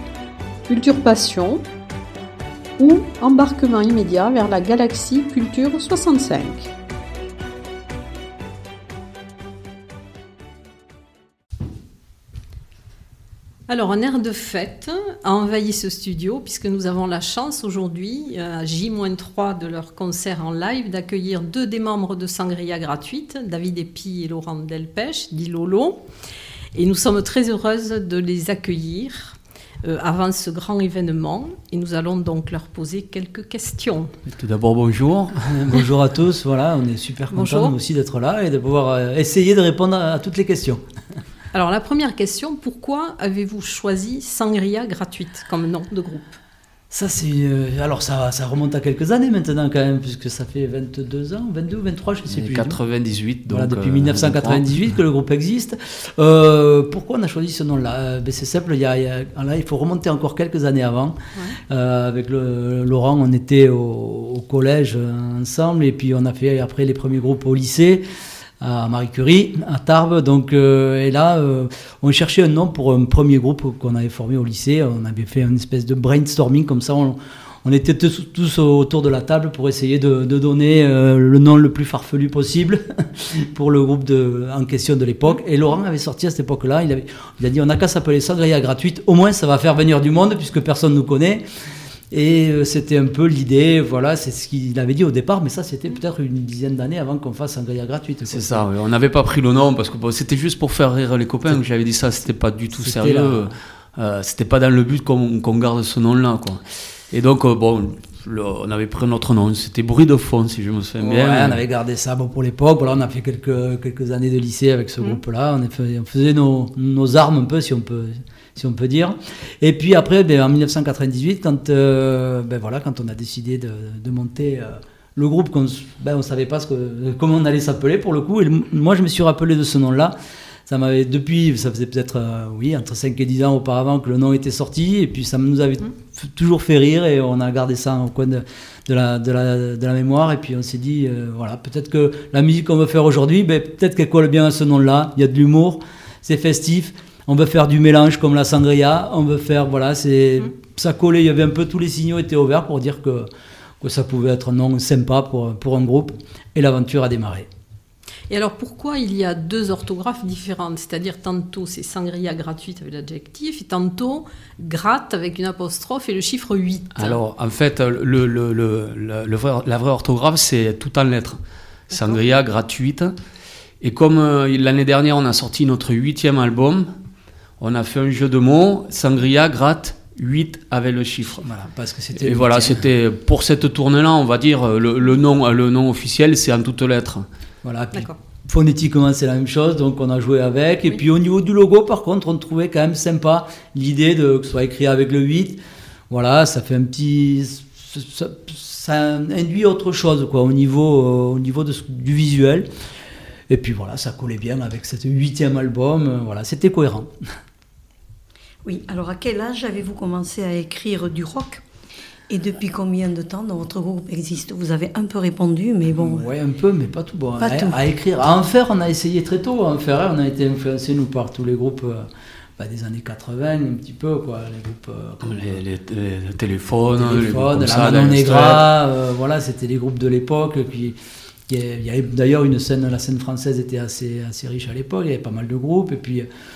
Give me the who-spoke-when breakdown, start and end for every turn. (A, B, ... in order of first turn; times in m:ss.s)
0:00.7-0:01.6 A
0:02.8-0:06.7 A
0:13.7-0:26.0 A
0:26.7-0:34.1 A
0:34.2-0:35.6 B
0:35.4-0:40.8 C
0:37.3-0:37.7 A
0:41.5-0:46.4 A
0:46.9-0:52.8 C
0:52.3-0:54.6 B
0:53.5-1:08.0 C
1:08.6-1:31.4 C
1:32.1-1:38.6 C
1:38.3-1:51.6 B
1:42.8-1:43.5 C
1:51.0-2:10.1 C
2:10.7-2:33.3 C
2:33.8-2:37.5 C
2:38.3-2:47.2 A
2:46.9-2:53.1 B
2:53.8-2:56.9 B
2:57.6-3:01.4 B
3:01.4-3:02.8 C
3:02.2-3:07.2 B
3:07.6-3:15.6 C
3:16.1-3:22.7 C
3:23.5-3:27.1 C
3:28.6-3:31.6 D
3:32.3-3:36.2 D
3:35.9-3:45.6 C
3:37.4-3:37.8 D
3:45.2-3:48.7 B
3:46.9-3:56.3 C